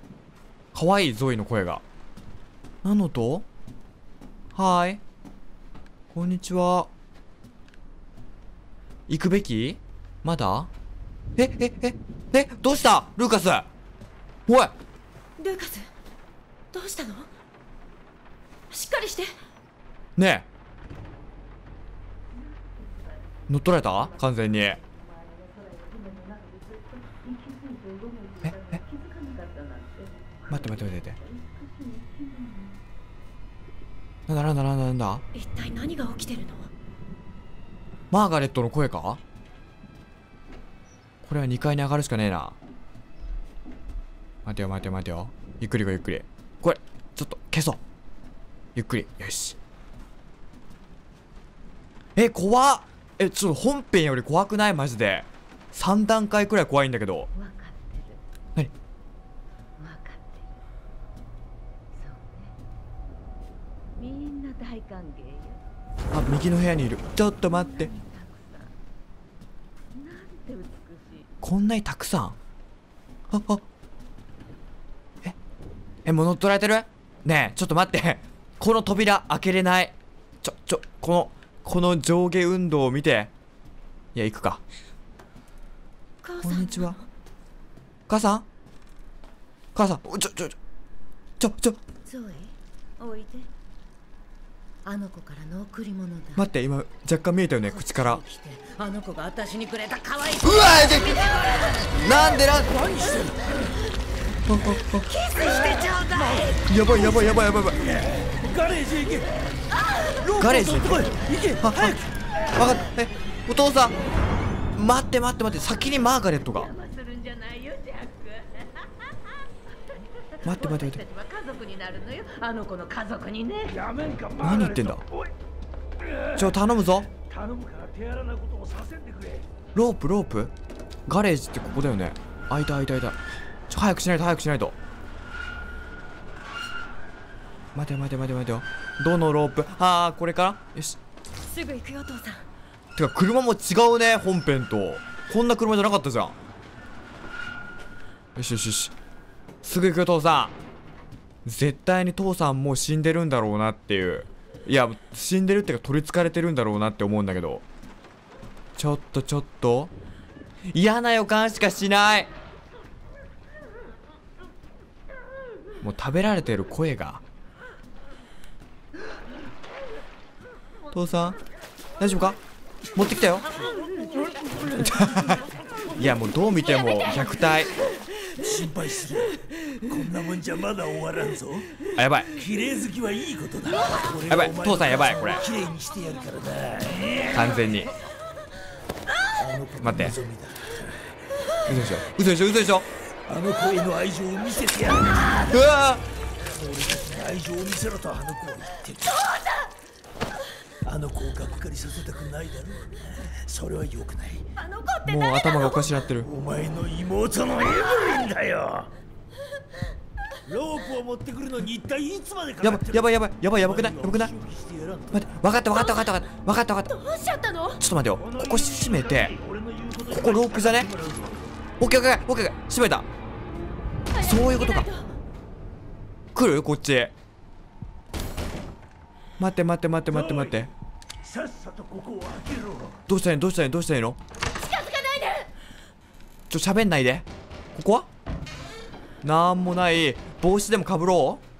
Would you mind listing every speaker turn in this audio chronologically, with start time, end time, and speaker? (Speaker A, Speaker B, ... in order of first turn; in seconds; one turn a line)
Speaker A: 0.7-1.8
Speaker A: 2.8-3.5
Speaker A: 4.5-5.0
Speaker A: 6.1-6.9
Speaker A: 9.1-10.7
Speaker A: 11.4-13.7
Speaker A: 14.5-14.7
Speaker B: 15.4-15.9
Speaker B: 16.7-17.3
Speaker B: 18.7-19.3
Speaker A: 20.1-20.5
Speaker C: 22.3-32.8
Speaker A: 23.5-24.8
Speaker A: 28.4-28.8
Speaker A: 30.5-31.2
Speaker A: 34.3-35.2
Speaker B: 35.3-36.7
Speaker A: 38.1-39.2
Speaker A: 41.2-42.5
Speaker A: 44.4-47.8
Speaker A: 48.8-49.6
Speaker A: 52.1-57.3
Speaker C: 57.3-58.2
Speaker C: 59.8-60.5
Speaker C: 61.9-62.5
Speaker C: 64.0-65.6
Speaker A: 66.1-67.9
Speaker C: 67.2-68.7
Speaker C: 69.9-71.3
Speaker A: 71.4-72.4
Speaker A: 73.3-73.6
Speaker A: 76.0-83.3
Speaker A: 84.1-84.6
Speaker B: 86.2-87.0
Speaker A: 86.4-87.0
Speaker A: 88.1-88.5
Speaker A: 89.7-90.6
Speaker A: 91.4-91.8
Speaker C: 92.0-93.5
Speaker C: 94.8-96.5
Speaker A: 96.3-98.2
Speaker C: 97.6-102.1
Speaker A: 100.4-101.2
Speaker A: 101.9-102.7
Speaker D: 102.6-103.7
Speaker A: 104.5-105.1
Speaker C: 105.0-107.4
Speaker D: 105.4-106.5
Speaker A: 106.6-107.8
Speaker D: 107.8-109.5
Speaker C: 109.7-110.4
Speaker D: 110.2-112.2
Speaker A: 110.4-112.0
Speaker A: 112.5-114.0
Speaker A: 114.7-116.7
Speaker C: 116.5-119.3
Speaker C: 119.9-123.8
Speaker A: 120.4-121.0
Speaker D: 123.7-125.3
Speaker A: 124.4-125.0
Speaker D: 126.0-126.5
Speaker A: 126.3-127.1
Speaker D: 127.1-129.5
Speaker A: 129.7-130.5
Speaker A: 131.1-133.2
Speaker A: 133.7-134.8
Speaker A: 137.7-141.0
Speaker B: 141.4-142.4
Speaker A: 142.9-146.4
Speaker A: 148.3-148.9
Speaker A: 149.6-150.6
Speaker A: 151.4-157.6
Speaker A: 158.8-159.9
Speaker A: 160.7-162.3
Speaker A: 165.8-167.2
Speaker A: 170.9-171.4
Speaker A: 172.0-172.4
Speaker A: 172.9-173.5
Speaker C: 173.7-174.7
Speaker A: 174.7-175.4
Speaker A: 175.9-177.8
Speaker D: 178.3-181.7
Speaker A: 181.9-182.3
Speaker D: 182.3-187.5
Speaker A: 184.3-185.5
Speaker A: 187.3-187.9
Speaker D: 189.4-191.1
Speaker A: 189.8-190.2
Speaker A: 191.7-192.9
Speaker D: 193.2-195.6
Speaker A: 195.4-196.0
Speaker D: 196.4-199.3
Speaker D: 200.8-204.4
Speaker B: 204.6-205.9
Speaker A: 205.0-206.3
Speaker D: 206.2-208.9
Speaker D: 210.4-215.3
Speaker A: 212.6-214.3
Speaker A: 215.1-216.9
Speaker B: 215.7-216.2
Speaker B: 216.9-217.8
Speaker A: 217.8-219.3
Speaker D: 218.2-221.4
Speaker A: 220.1-220.9
Speaker A: 221.8-223.1
Speaker B: 224.1-225.0
Speaker A: 224.2-224.9
Speaker A: 226.3-227.1
Speaker A: 229.4-230.7
Speaker D: 230.1-230.7
Speaker D: 231.2-233.0
Speaker A: 233.1-234.2
Speaker B: 234.6-235.5
Speaker A: 236.5-238.1
Speaker A: 239.2-241.4